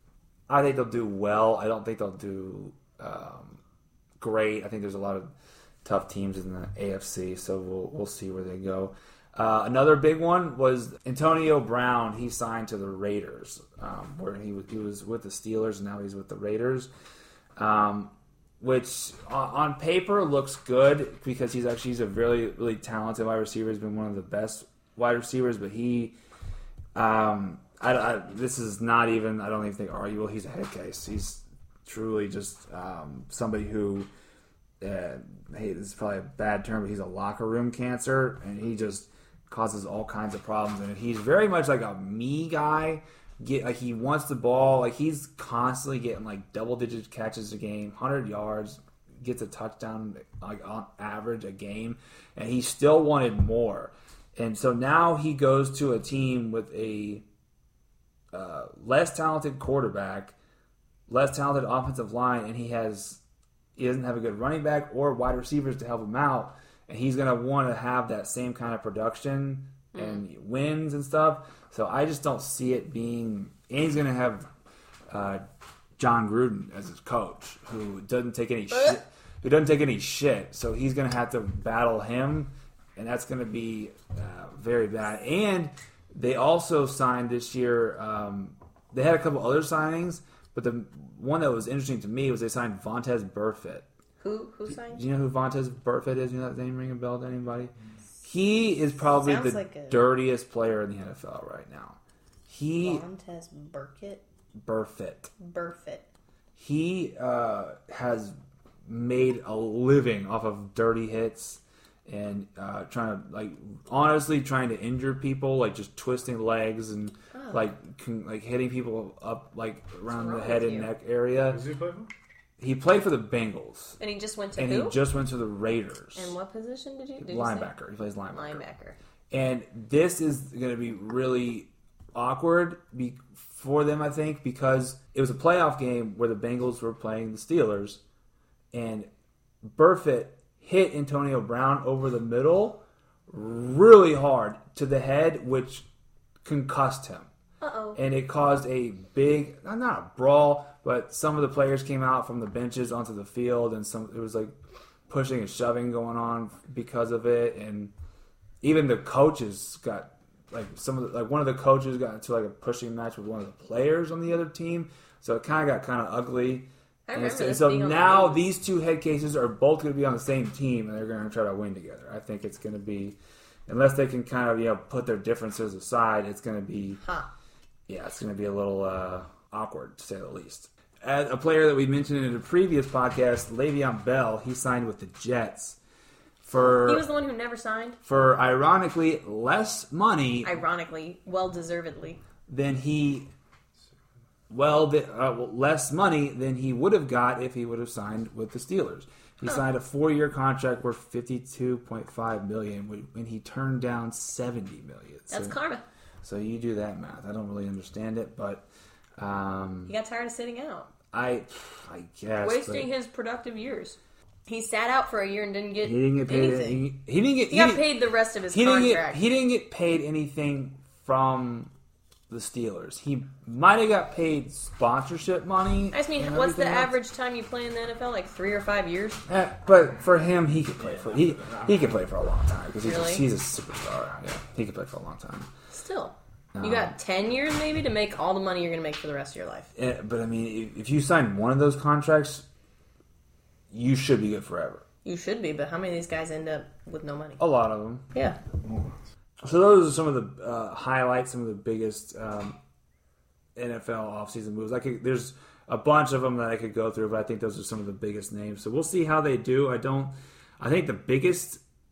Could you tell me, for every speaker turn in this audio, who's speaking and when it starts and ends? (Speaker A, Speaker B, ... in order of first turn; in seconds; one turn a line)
Speaker A: 0.5-3.6
Speaker A: 4.2-5.3
Speaker A: 5.8-16.9
Speaker A: 17.6-26.1
Speaker A: 26.9-34.1
Speaker A: 34.8-57.2
Speaker A: 58.3-60.4
Speaker A: 61.1-63.2
Speaker A: 63.8-74.5
Speaker B: 69.9-70.2
Speaker A: 75.1-75.4
Speaker A: 76.0-93.8
Speaker B: 78.7-79.0
Speaker B: 94.2-95.0
Speaker A: 94.7-103.0
Speaker B: 99.2-100.1
Speaker B: 102.7-104.2
Speaker A: 104.6-105.3
Speaker B: 105.4-106.1
Speaker A: 106.5-108.3
Speaker A: 108.8-121.6
Speaker B: 117.3-117.7
Speaker B: 120.1-120.9
Speaker C: 121.3-122.1
Speaker A: 122.6-124.0
Speaker B: 124.0-125.0
Speaker A: 124.6-126.3
Speaker B: 126.1-127.7
Speaker A: 127.2-128.6
Speaker B: 128.3-129.0
Speaker A: 129.3-138.0
Speaker A: 138.7-139.1
Speaker A: 139.6-145.8
Speaker A: 146.4-147.3
Speaker B: 147.6-148.0
Speaker A: 147.9-154.5
Speaker A: 155.1-157.9
Speaker A: 158.6-177.0
Speaker B: 167.1-168.5
Speaker B: 177.0-177.3
Speaker A: 177.9-185.8
Speaker A: 186.4-187.1
Speaker B: 186.6-188.0
Speaker A: 188.0-190.5
Speaker B: 190.4-192.2
Speaker A: 192.5-193.3
Speaker A: 194.5-205.5
Speaker B: 205.3-205.8
Speaker A: 206.2-208.7
Speaker A: 209.2-209.9
Speaker B: 209.8-210.9
Speaker A: 211.1-212.9
Speaker B: 212.4-216.8
Speaker A: 215.8-217.8
Speaker B: 217.5-219.2
Speaker A: 218.5-221.7
Speaker A: 222.3-226.9
Speaker B: 225.9-229.2
Speaker A: 229.3-235.5
Speaker C: 230.8-232.0
Speaker B: 232.8-233.2
Speaker B: 235.7-239.7
Speaker A: 236.5-236.9
Speaker A: 239.8-242.4
Speaker A: 243.7-244.8
Speaker B: 245.0-247.4
Speaker A: 247.4-248.1
Speaker B: 248.1-248.4
Speaker C: 248.6-248.9
Speaker A: 249.4-252.6
Speaker A: 253.6-261.6